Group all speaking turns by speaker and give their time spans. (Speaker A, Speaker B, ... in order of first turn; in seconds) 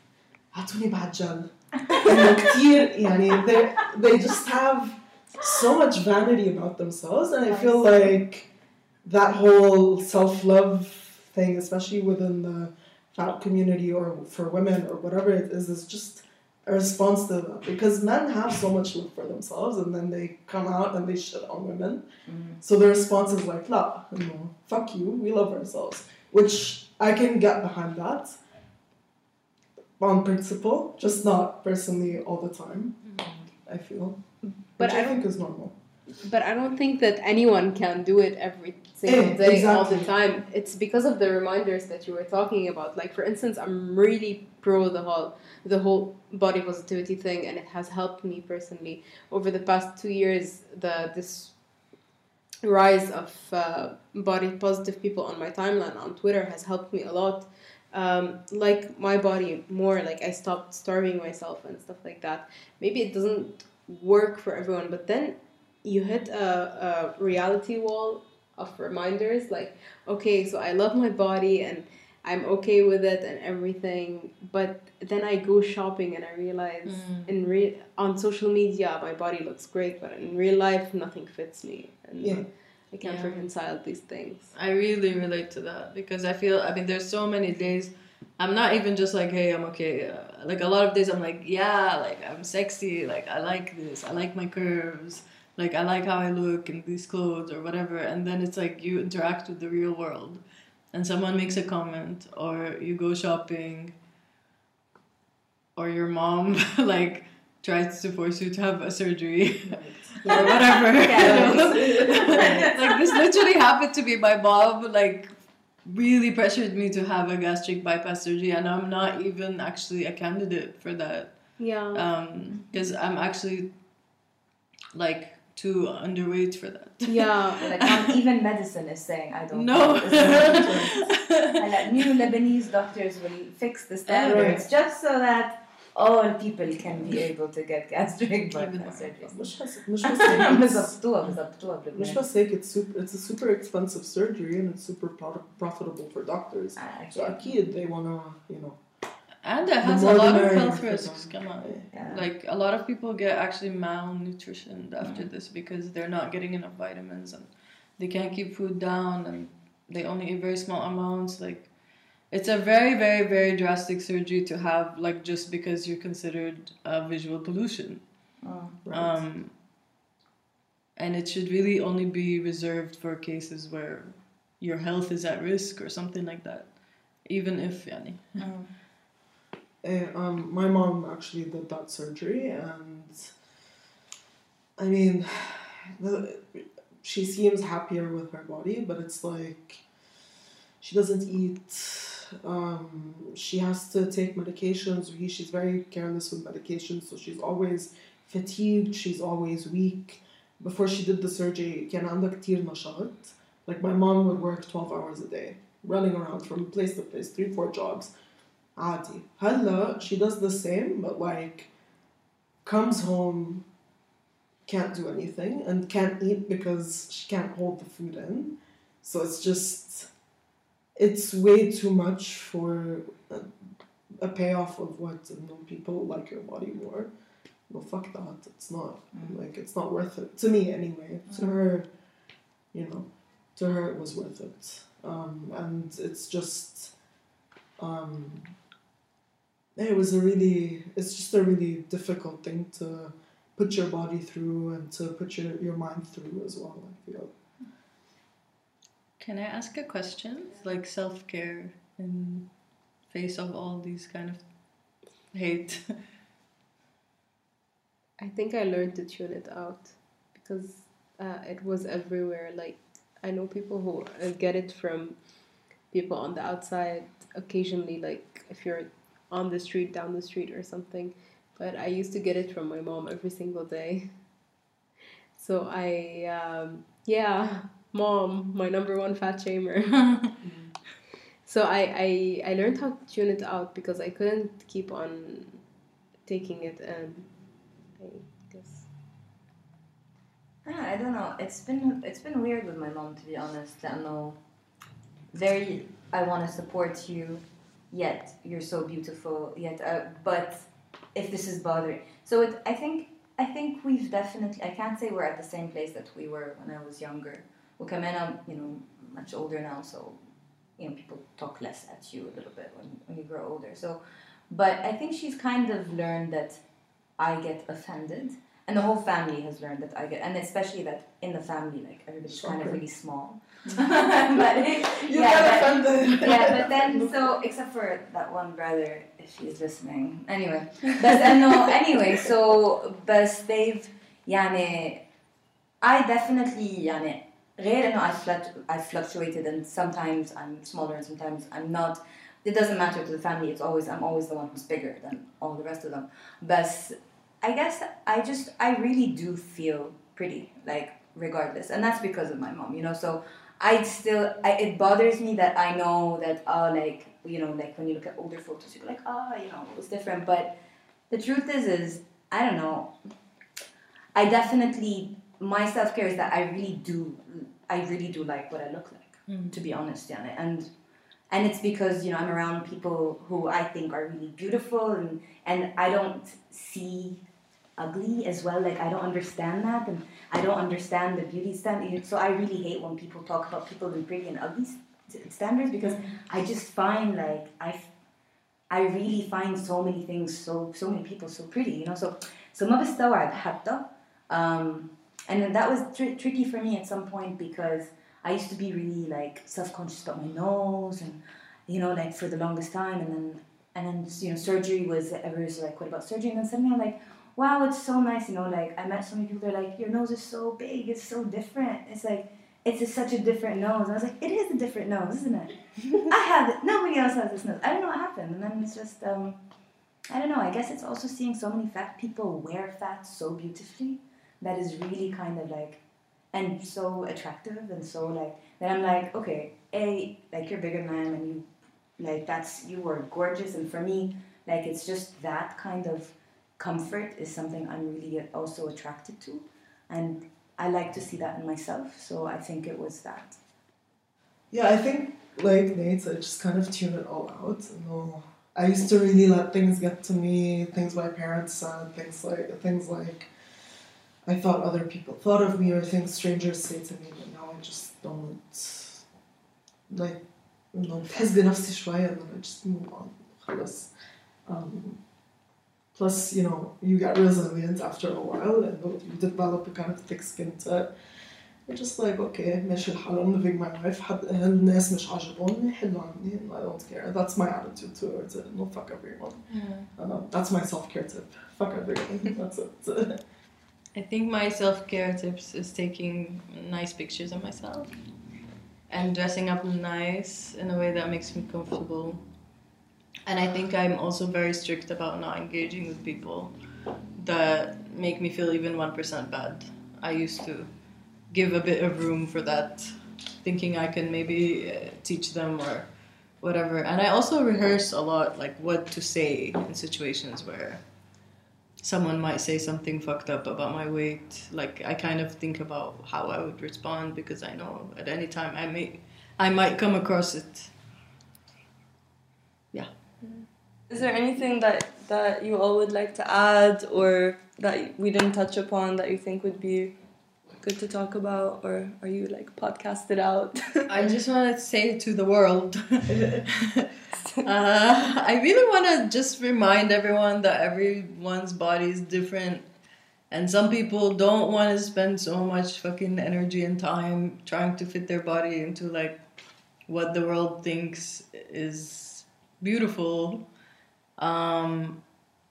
Speaker A: 0.5-8.5, 9.0-22.1, 22.6-28.4, 30.0-34.2, 34.8-35.8, 39.1-40.1, 82.2-82.5, 109.7-111.6, 130.1-131.1, 134.3-134.7, 139.2-141.0, 141.9-148.8, 149.8-151.9, 168.8-169.2, 179.8-183.3, 184.8-189.8, 190.8-208.1, 208.8-211.7, 212.6-213.7, 214.7-220.1, 221.0-227.1, 227.7-231.9, 232.7-236.9, 237.8-238.6, 239.8-247.3, 280.4-280.7, 322.3-322.8, 324.8-327.3, 444.5-453.3, 454.3-459.0, 459.9-463.9, 464.5-465.0, 465.9-470.9, 471.7-479.4, 480.0-483.2
Speaker B: 1.9-2.2, 7.5-8.0, 22.3-22.6, 110.3-113.2, 127.6-139.4, 140.0-142.2, 146.8-147.5, 151.9-152.3, 155.0-155.3, 168.4-168.8, 178.4-178.7, 290.6-294.4, 295.3-310.2, 310.8-316.6, 317.2-335.0, 335.8-360.6, 361.1-362.9, 364.1-370.7, 371.3-377.2, 377.8-387.9, 388.7-419.4, 420.1-425.8, 426.3-431.5, 432.0-443.4
Speaker C: 34.5-35.2, 36.2-51.6, 52.6-84.5, 121.6-122.1, 127.0-127.7, 258.2-265.2, 265.9-274.1, 275.4-280.3, 281.4-285.6, 286.3-287.3, 288.0-288.9
Speaker D: 76.9-77.3, 83.0-83.5, 84.5-100.4, 100.9-104.0, 105.8-115.3, 115.8-123.7, 124.9-128.0, 129.5-132.1, 134.1-134.6, 138.5-139.2, 149.4-161.7, 162.3-168.0, 168.9-169.5, 171.0-176.7, 177.2-178.4, 249.2-252.5, 253.1-254.5, 255.3-256.0, 369.3-369.5, 479.5-479.9, 483.9-487.9, 488.9-492.2, 493.3-496.5, 497.2-500.7, 501.3-505.9, 506.4-510.8, 511.8-520.7, 533.9-536.9, 537.4-542.6, 543.3-549.2, 549.9-553.5, 554.2-555.0
Speaker E: 523.2-529.9, 530.6-533.9